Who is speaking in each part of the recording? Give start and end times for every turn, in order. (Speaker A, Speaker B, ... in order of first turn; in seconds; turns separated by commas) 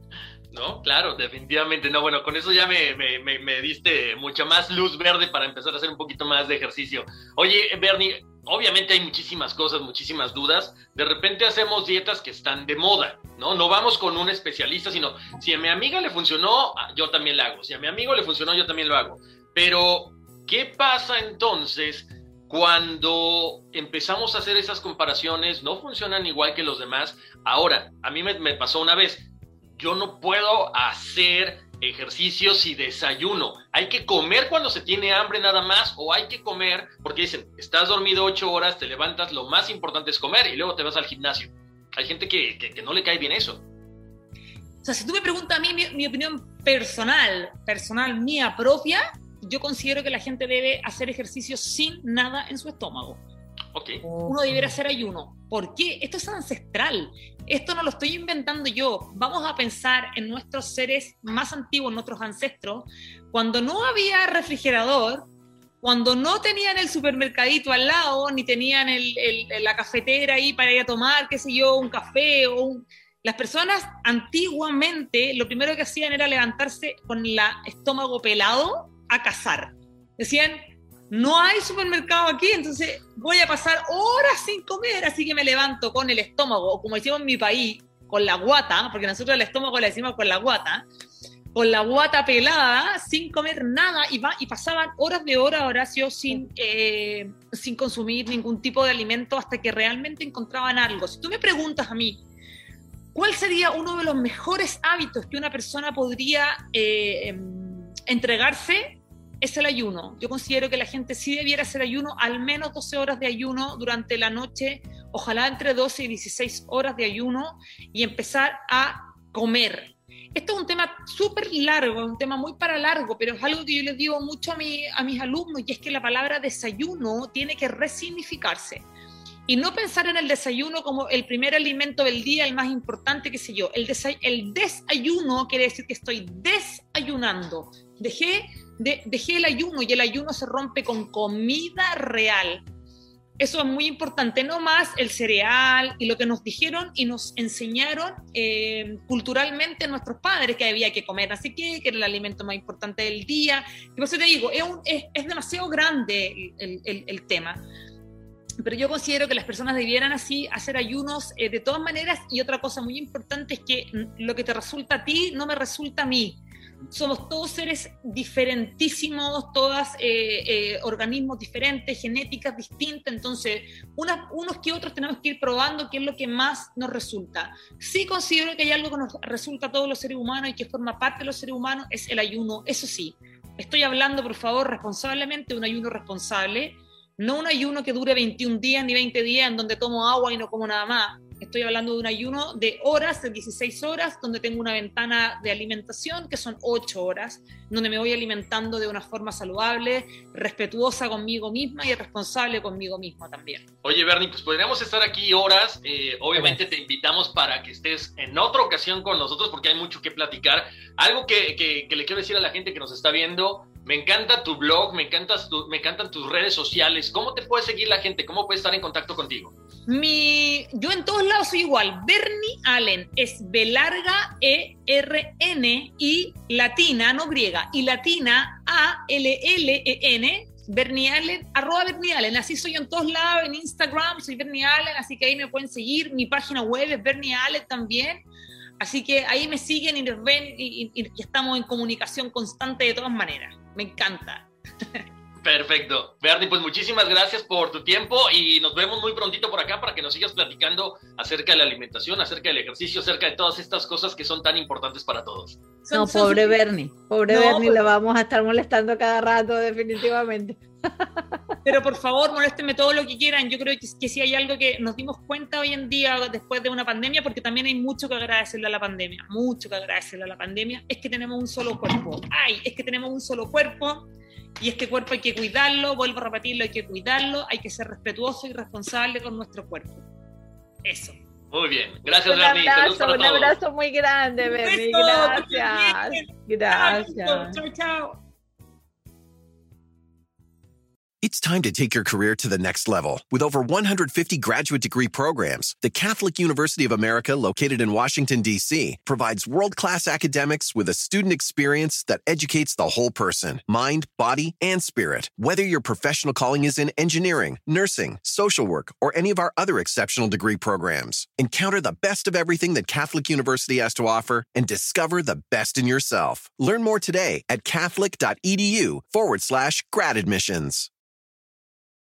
Speaker A: 0.5-43.6, Speaker B: 44.8-53.2, Speaker A: 53.7-54.0, Speaker C: 54.0-54.7, Speaker B: 54.2-65.3, Speaker B: 65.8-90.8, Speaker B: 91.5-102.2, Speaker B: 103.1-128.8, Speaker B: 129.5-142.6, Speaker B: 143.4-157.6, Speaker B: 158.6-203.6, Speaker A: 203.8-219.5, Speaker B: 219.9-238.2, Speaker B: 238.8-245.0, Speaker A: 245.4-255.6, Speaker B: 255.8-256.6, Speaker C: 255.9-261.4, Speaker B: 257.3-257.9, Speaker B: 261.6-274.1, Speaker B: 274.6-280.1, Speaker B: 280.8-281.1, Speaker A: 281.5-283.6, Speaker C: 282.2-287.6, Speaker B: 284.4-288.2, Speaker D: 291.2-320.9